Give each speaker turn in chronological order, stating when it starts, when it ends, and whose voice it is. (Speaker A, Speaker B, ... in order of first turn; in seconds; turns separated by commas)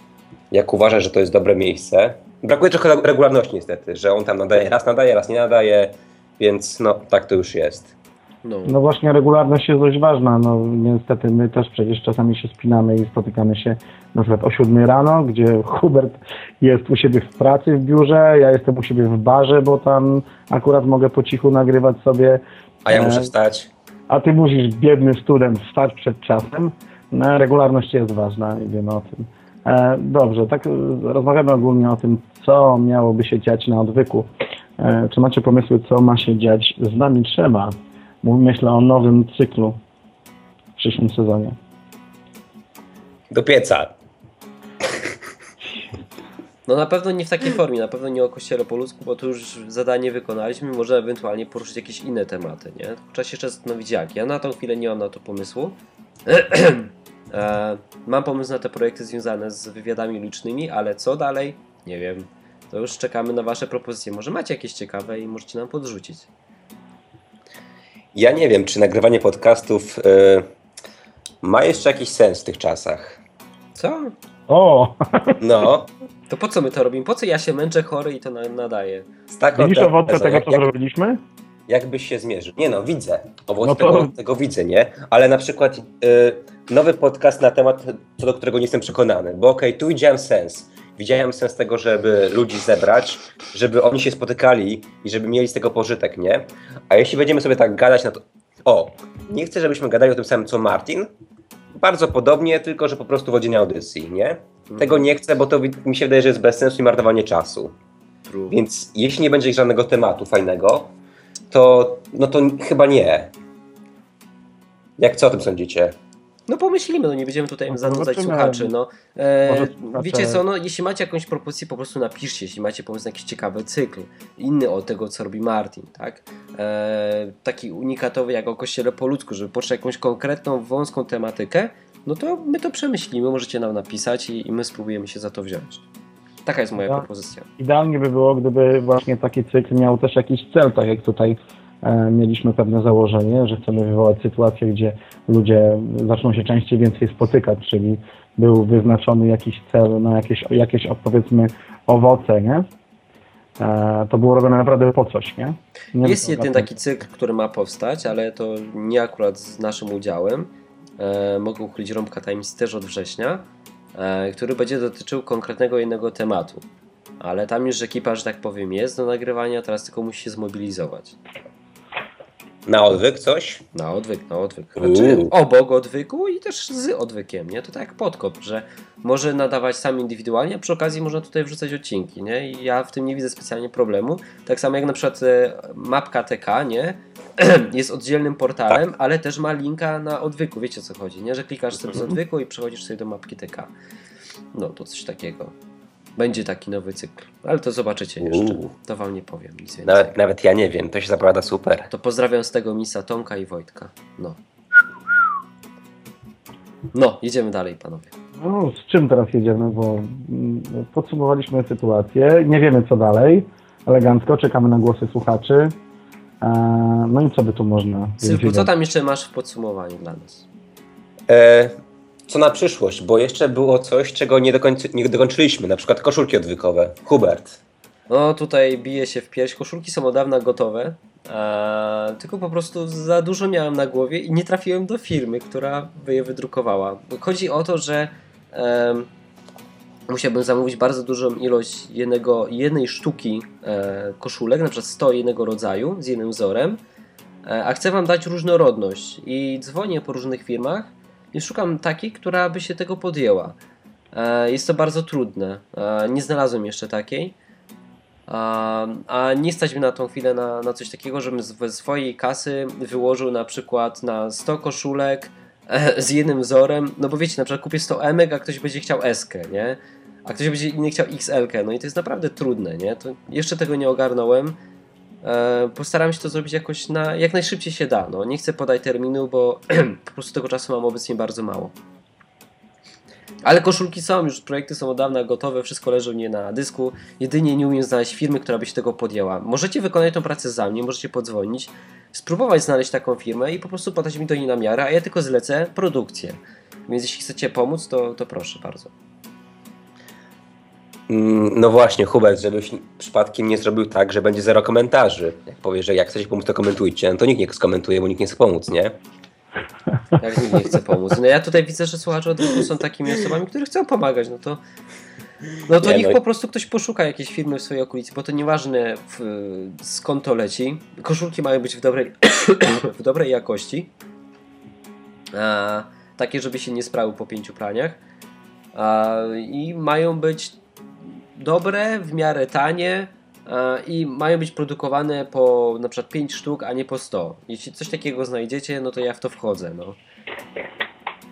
Speaker A: 0.5-7.9, Speaker B: 8.4-8.8, Speaker C: 8.7-23.3, Speaker A: 22.9-23.7, Speaker C: 24.1-39.8, Speaker C: 40.8-41.5, Speaker A: 43.3-43.9, Speaker B: 46.6-55.8, Speaker B: 56.3-66.3, Speaker A: 68.1-70.5, Speaker A: 71.4-73.2, Speaker B: 73.8-74.1, Speaker C: 74.5-75.4, Speaker A: 75.4-75.9, Speaker B: 76.3-79.0, Speaker A: 79.3-80.7, Speaker C: 79.5-81.2, Speaker A: 81.7-101.1, Speaker C: 83.6-84.1, Speaker A: 101.8-107.7, Speaker B: 104.7-105.0, Speaker B: 108.2-108.6, Speaker A: 108.5-110.9, Speaker A: 111.5-113.3, Speaker A: 115.0-115.9, Speaker B: 116.5-135.8, Speaker C: 117.7-118.7, Speaker C: 119.5-120.4, Speaker B: 136.4-137.5, Speaker C: 137.6-152.7, Speaker C: 153.6-156.8, Speaker B: 156.0-166.6, Speaker B: 167.2-171.2, Speaker A: 172.7-173.6, Speaker B: 173.7-193.7, Speaker A: 174.8-175.3, Speaker B: 194.5-195.5, Speaker B: 196.2-200.1, Speaker A: 198.2-198.7, Speaker A: 199.8-201.9, Speaker B: 201.9-204.4, Speaker B: 206.9-208.1, Speaker C: 208.4-215.7, Speaker C: 216.4-218.7, Speaker B: 218.2-220.4, Speaker A: 221.3-221.7, Speaker A: 222.3-227.6, Speaker B: 228.1-239.1, Speaker B: 240.1-246.8, Speaker B: 247.4-253.6, Speaker B: 254.1-257.4, Speaker B: 258.3-274.6, Speaker B: 275.2-281.7, Speaker B: 283.4-298.9, Speaker A: 301.1-309.0, Speaker B: 310.2-314.6, Speaker B: 315.7-323.9, Speaker A: 315.8-316.2, Speaker B: 325.3-328.0, Speaker B: 328.7-330.6, Speaker B: 331.4-340.0